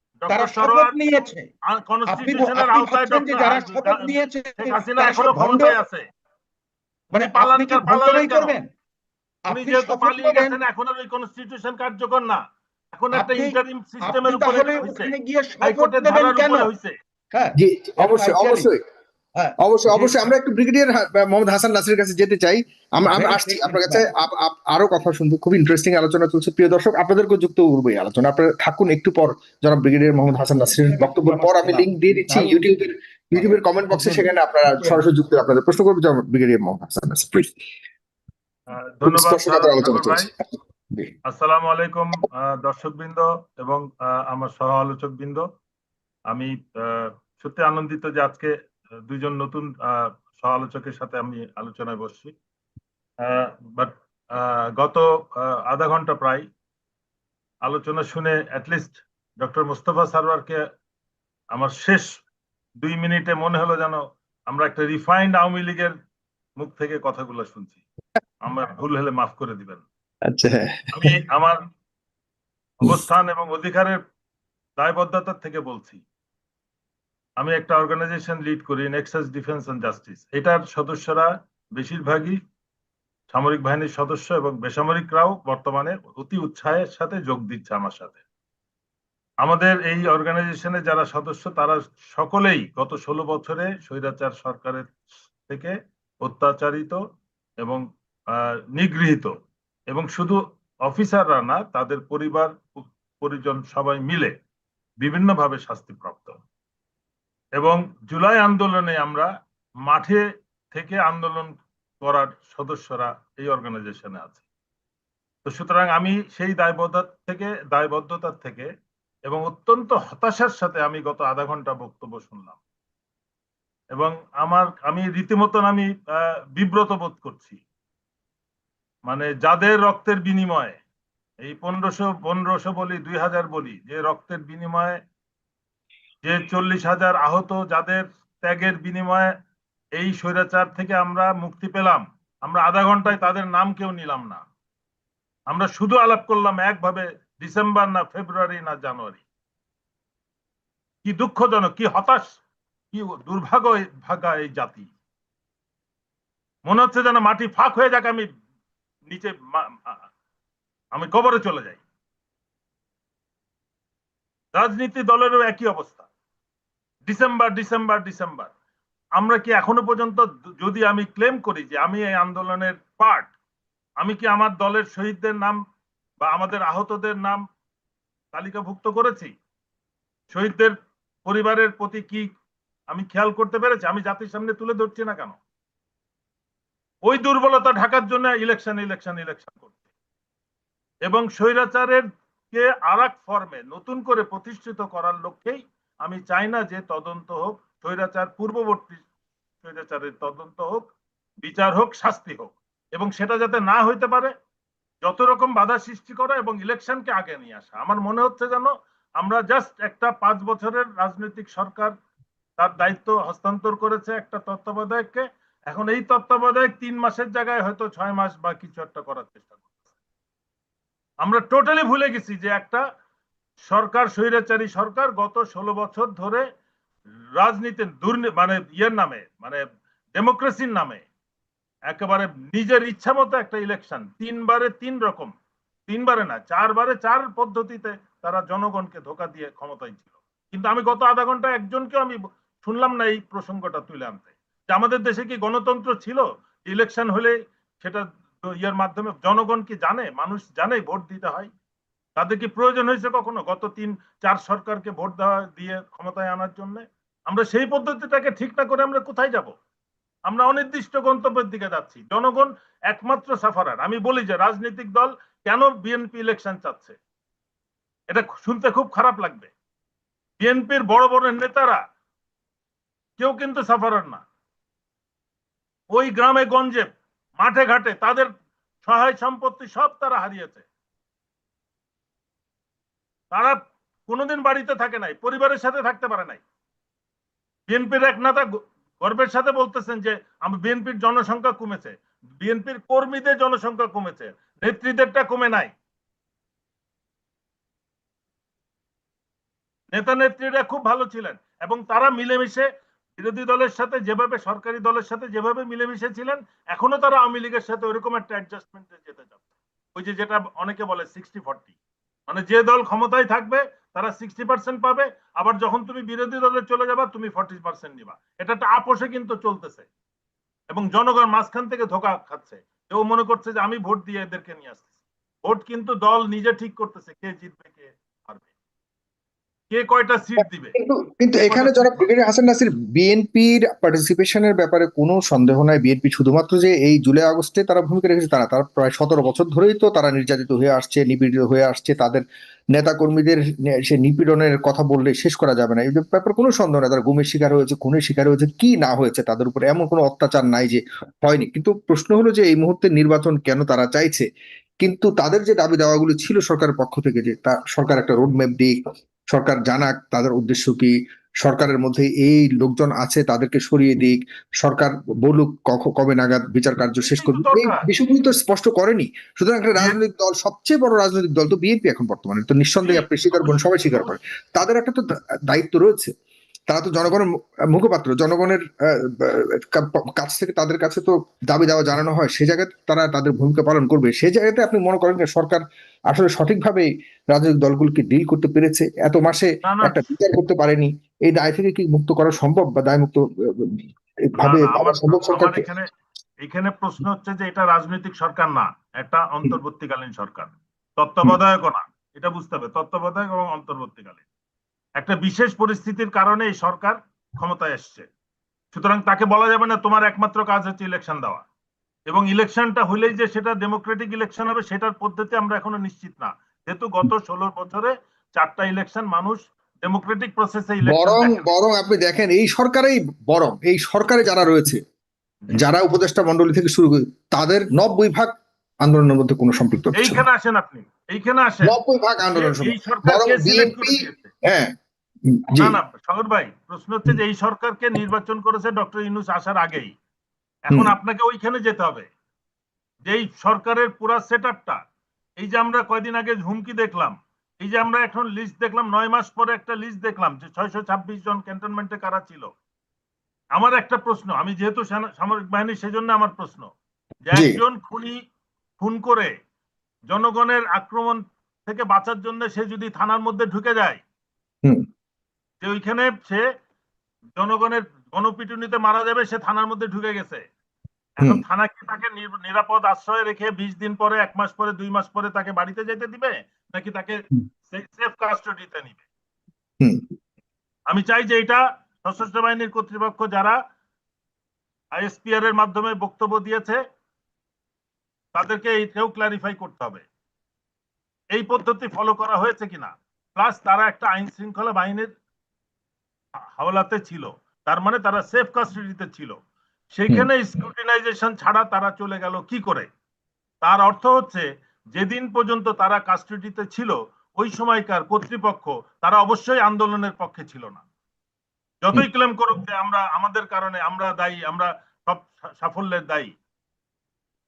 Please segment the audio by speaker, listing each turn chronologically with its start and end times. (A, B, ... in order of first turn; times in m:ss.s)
0:00.2-0:01.0 A
0:00.3-0:01.5 B
0:01.7-0:06.0 A
0:02.1-0:05.8 B
0:07.1-0:08.7 B
0:07.2-0:08.6 A
0:09.5-0:10.6 B
0:09.5-0:12.4 A
0:12.9-0:16.9 A
0:13.1-0:16.7 B
0:17.3-0:18.7 B
0:17.6-0:18.8 C
0:19.4-0:20.3 B
0:19.6-0:37.6 C
0:23.0-0:24.0 B
0:30.6-0:32.7 B
0:33.4-0:35.0 B
0:38.7-0:40.3 A
0:39.1-0:40.3 C
0:41.3-0:45.4 A
0:46.3-0:48.5 A
0:49.1-0:52.3 A
0:53.2-0:56.5 A
0:57.6-1:00.6 A
1:01.5-1:02.1 A
1:02.8-1:05.9 A
1:06.6-1:07.8 A
1:08.4-1:09.8 A
1:10.2-1:11.1 C
1:10.9-1:11.6 A
1:12.8-1:14.0 A
1:14.8-1:16.0 A
1:17.4-1:22.4 A
1:23.3-1:28.2 A
1:29.4-1:37.0 A
1:38.4-1:39.3 A
1:39.9-1:44.3 A
1:45.0-1:46.4 A
1:47.6-1:49.3 A
1:49.9-1:54.4 A
1:55.4-1:58.7 A
1:59.3-2:02.6 A
2:04.0-2:07.6 A
2:09.1-2:10.8 A
2:11.4-2:15.0 A
2:16.2-2:19.3 A
2:20.0-2:24.4 A
2:25.5-2:29.2 A
2:31.0-2:32.4 A
2:32.9-2:34.9 A
2:36.7-2:38.3 A
2:39.1-2:40.0 A
2:40.9-2:41.8 A
2:44.6-2:46.1 A
2:47.1-2:48.5 A
2:49.2-2:53.3 A
2:54.0-2:55.6 A
2:56.2-2:57.4 A
2:58.3-2:59.3 A
3:00.3-3:02.3 A
3:02.9-3:05.4 A
3:07.0-3:09.7 A
3:11.0-3:19.0 A
3:19.6-3:20.9 A
3:21.4-3:24.3 A
3:25.0-3:31.9 A
3:32.6-3:39.6 A
3:41.2-3:42.8 A
3:43.6-3:46.5 A
3:47.4-3:49.6 A
3:50.2-3:51.0 A
3:51.9-3:55.3 A
3:55.9-4:11.5 A
4:12.2-4:19.5 A
4:20.3-4:27.0 A
4:28.1-4:29.5 A
4:30.4-4:31.8 A
4:33.2-4:34.2 A
4:35.9-4:38.3 A
4:38.8-4:40.7 A
4:43.3-4:46.4 A
4:47.7-4:55.7 A
4:59.9-5:09.4 A
5:10.0-5:11.7 A
5:12.3-5:19.9 A
5:20.7-5:24.9 A
5:25.5-5:28.5 A
5:29.7-5:30.8 A
5:30.4-5:54.3 C
5:31.4-5:32.1 A
5:54.8-5:58.8 C
5:59.3-6:16.1 C
6:07.0-6:07.8 A
6:12.8-6:14.1 A
6:16.7-6:35.6 C
6:29.6-6:30.1 A
6:34.4-6:35.9 A
6:36.4-6:44.2 A
6:45.0-6:48.1 A
6:48.7-6:51.4 A
6:52.1-7:01.4 A
7:00.9-7:04.8 C
7:05.5-7:10.2 C
7:10.0-7:11.8 A
7:11.6-7:14.8 C
7:12.3-7:14.3 A
7:15.4-7:15.8 C
7:15.6-7:20.0 A
7:20.7-7:22.1 A
7:23.1-7:24.8 A
7:25.4-7:32.5 A
7:33.6-7:36.7 A
7:37.3-7:38.2 A
7:38.8-7:39.3 A
7:40.1-7:44.0 A
7:45.6-7:46.4 A
7:47.4-7:50.4 A
7:51.2-7:59.0 A
7:59.8-8:00.1 C
8:00.9-8:03.6 A
8:05.0-8:06.8 A
8:08.4-8:10.0 A
8:11.3-8:15.1 A
8:16.6-8:19.4 A
8:20.0-8:22.9 A
8:23.6-8:30.8 A
8:31.8-8:36.3 A